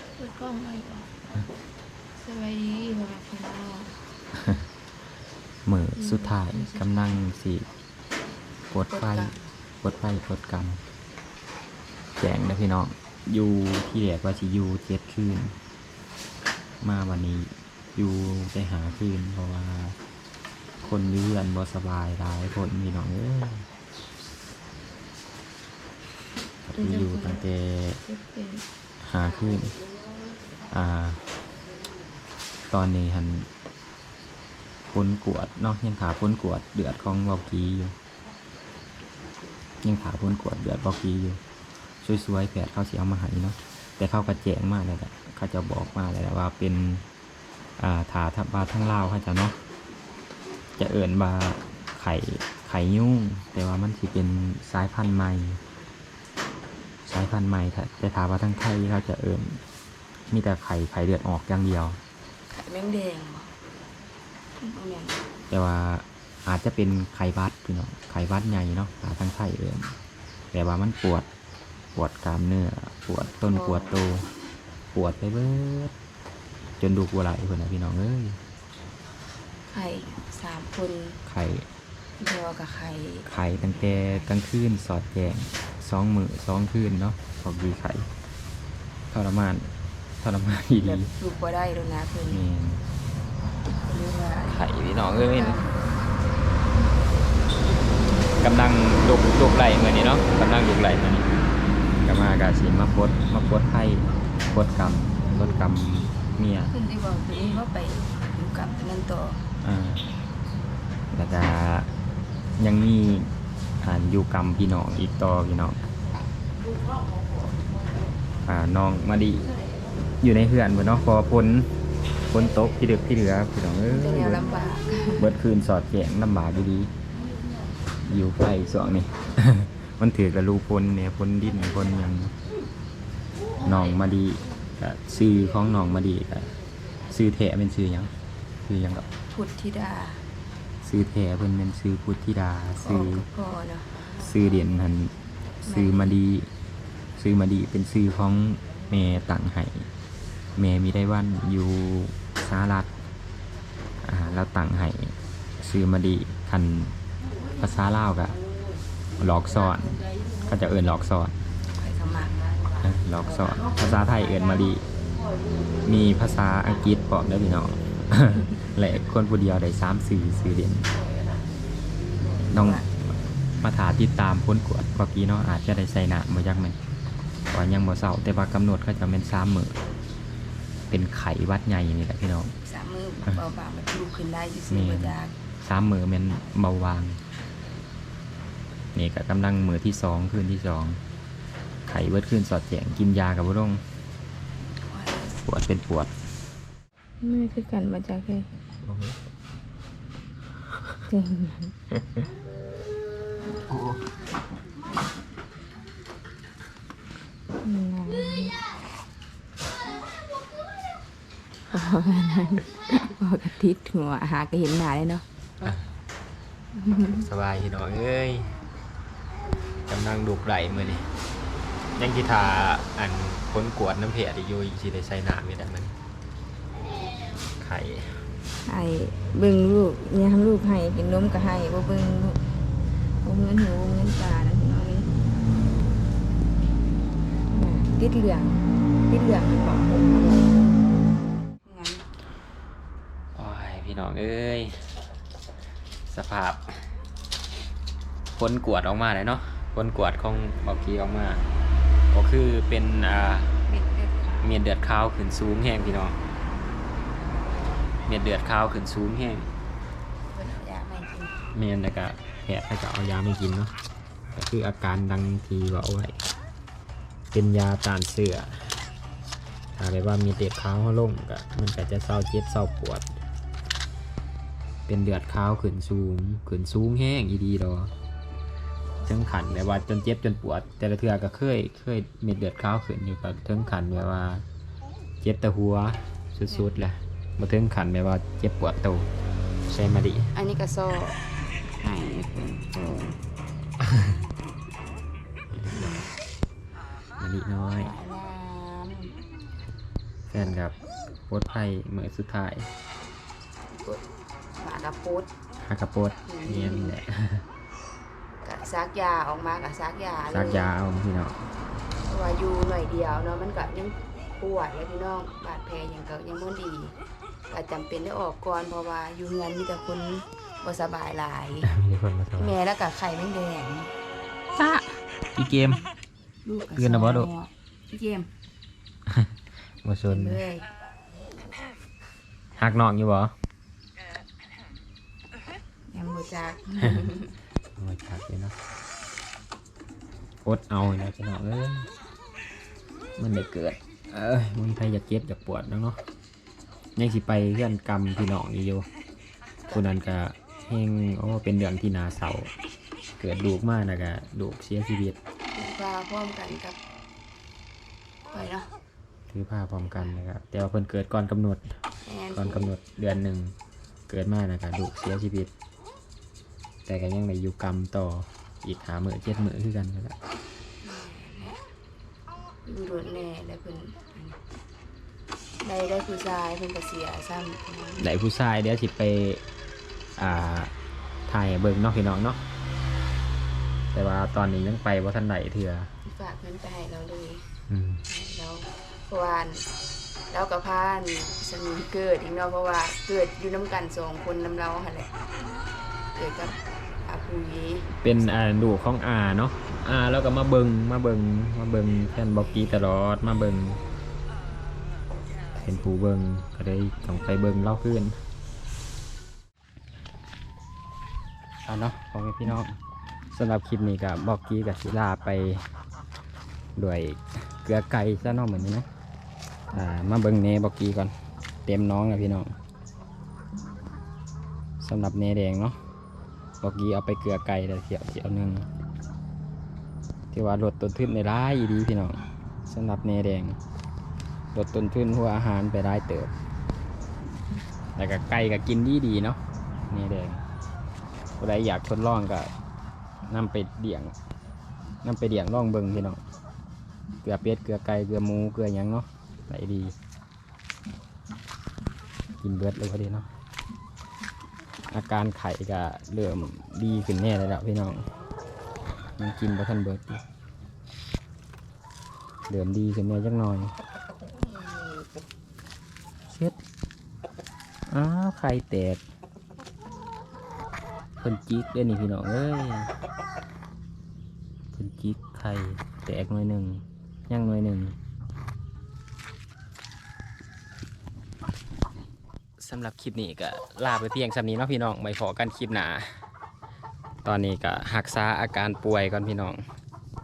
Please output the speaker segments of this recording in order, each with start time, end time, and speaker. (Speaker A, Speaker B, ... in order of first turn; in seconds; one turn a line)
Speaker A: 0.2-1.1
Speaker A: 2.2-4.0
Speaker B: 5.7-7.7
Speaker A: 6.0-7.2
Speaker B: 8.7-10.8
Speaker A: 8.9-9.5
Speaker B: 12.2-15.6
Speaker B: 16.8-20.0
Speaker B: 20.8-23.7
Speaker B: 26.7-28.0
Speaker A: 26.7-27.4
Speaker A: 28.0-28.6
Speaker B: 29.0-29.8
Speaker B: 30.7-31.3
Speaker B: 32.7-33.5
Speaker B: 34.9-38.0
Speaker B: 39.8-41.4
Speaker B: 42.0-47.0
Speaker B: 47.8-49.6
Speaker B: 50.8-55.6
Speaker B: 57.1-59.6
Speaker B: 60.3-62.0
Speaker A: 62.5-63.5
Speaker A: 64.6-65.3
Speaker B: 65.5-70.0
Speaker B: 70.5-71.3
Speaker B: 72.0-74.3
Speaker A: 73.5-74.0
Speaker B: 74.9-75.9
Speaker B: 76.8-78.4
Speaker A: 79.7-81.2
Speaker B: 81.2-81.7
Speaker A: 82.2-83.3
Speaker B: 83.3-88.1
Speaker B: 89.1-91.1
Speaker A: 90.8-92.4
Speaker B: 92.3-92.8
Speaker A: 93.8-95.7
Speaker B: 94.5-95.6
Speaker B: 98.4-101.3
Speaker B: 102.0-106.8
Speaker A: 106.7-109.4
Speaker B: 109.6-110.1
Speaker B: 111.1-111.9
Speaker B: 112.6-113.3
Speaker B: 113.8-115.8
Speaker B: 118.5-119.5
Speaker B: 120.2-121.7
Speaker B: 122.3-124.5
Speaker A: 123.9-125.3
Speaker B: 125.2-126.9
Speaker B: 128.1-132.4
Speaker B: 133.6-136.5
Speaker B: 137.1-138.1
Speaker B: 138.6-139.1
Speaker A: 139.2-140.2
Speaker B: 140.8-143.3
Speaker A: 142.8-144.0
Speaker B: 144.2-146.5
Speaker A: 145.7-146.2
Speaker B: 147.2-149.9
Speaker B: 150.6-152.9
Speaker B: 154.0-156.9
Speaker B: 157.6-158.4
Speaker B: 159.2-161.4
Speaker A: 161.8-162.6
Speaker B: 162.8-164.8
Speaker B: 165.8-170.9
Speaker A: 172.4-172.9
Speaker B: 172.5-176.8
Speaker B: 177.5-179.8
Speaker B: 180.9-182.5
Speaker A: 182.6-185.3
Speaker B: 184.7-187.2
Speaker B: 188.9-191.0
Speaker B: 191.9-193.8
Speaker A: 194.9-195.4
Speaker B: 195.4-196.1
Speaker A: 197.2-198.5
Speaker B: 198.8-199.2
Speaker A: 201.1-201.7
Speaker B: 203.7-204.1
Speaker A: 207.6-208.6
Speaker A: 211.7-215.2
Speaker A: 216.7-217.3
Speaker B: 217.1-218.6
Speaker B: 219.9-221.1
Speaker B: 222.0-225.9
Speaker B: 227.6-228.3
Speaker A: 228.7-232.4
Speaker A: 233.2-235.1
Speaker A: 237.5-240.6
Speaker A: 241.6-242.1
Speaker B: 243.3-244.9
Speaker B: 246.1-247.0
Speaker B: 248.3-251.4
Speaker B: 252.1-253.6
Speaker A: 253.7-254.4
Speaker B: 254.4-256.2
Speaker B: 258.1-259.5
Speaker A: 260.3-261.4
Speaker B: 261.5-263.7
Speaker B: 264.3-266.2
Speaker B: 267.3-268.7
Speaker B: 269.8-273.1
Speaker B: 274.9-277.9
Speaker B: 279.1-284.5
Speaker B: 285.2-289.1
Speaker B: 289.7-290.3
Speaker A: 290.3-291.2
Speaker A: 291.7-293.2
Speaker B: 295.5-296.0
Speaker A: 295.7-296.1
Speaker B: 297.2-297.9
Speaker A: 297.8-299.2
Speaker B: 300.3-300.8
Speaker B: 301.3-302.7
Speaker A: 304.6-305.3
Speaker B: 305.6-307.4
Speaker A: 306.3-306.9
Speaker A: 308.4-310.7
Speaker B: 310.3-311.4
Speaker A: 312.1-316.9
Speaker A: 317.5-321.7
Speaker B: 321.6-322.6
Speaker A: 322.4-323.9
Speaker B: 324.6-325.9
Speaker A: 326.4-328.3
Speaker B: 326.8-327.3
Speaker B: 329.8-330.4
Speaker A: 330.1-330.7
Speaker B: 332.6-333.3
Speaker A: 335.9-337.3
Speaker B: 337.8-338.6
Speaker B: 340.4-341.9
Speaker B: 343.2-346.0
Speaker B: 347.0-348.9
Speaker B: 349.7-352.5
Speaker B: 353.2-355.2
Speaker A: 355.5-356.8
Speaker A: 358.3-358.7
Speaker B: 359.3-361.8
Speaker A: 362.1-362.7
Speaker B: 362.3-363.6
Speaker B: 364.1-365.5
Speaker B: 366.9-370.1
Speaker A: 370.8-371.6
Speaker A: 372.6-374.4
Speaker A: 375.6-378.1
Speaker B: 378.0-379.4
Speaker B: 380.2-380.7
Speaker B: 381.3-382.4
Speaker B: 383.9-385.9
Speaker A: 386.0-387.5
Speaker B: 387.7-388.1
Speaker A: 388.1-389.7
Speaker A: 390.3-395.1
Speaker A: 396.1-398.0
Speaker B: 398.0-403.8
Speaker B: 405.6-408.2
Speaker B: 411.6-412.8
Speaker B: 413.3-415.7
Speaker B: 416.8-418.9
Speaker B: 419.7-421.1
Speaker B: 421.7-422.5
Speaker B: 424.8-425.8
Speaker B: 426.6-428.7
Speaker B: 430.3-433.6
Speaker B: 434.5-436.3
Speaker B: 438.0-439.4
Speaker B: 439.9-440.4
Speaker B: 441.4-442.5
Speaker B: 443.3-444.1
Speaker B: 445.0-446.2
Speaker B: 447.2-449.9
Speaker B: 452.4-453.3
Speaker B: 454.9-458.1
Speaker B: 459.2-460.2
Speaker B: 462.5-463.7
Speaker B: 466.3-466.6
Speaker B: 467.9-469.0
Speaker B: 471.2-472.9
Speaker B: 474.8-478.0
Speaker B: 482.6-486.2
Speaker B: 487.2-489.6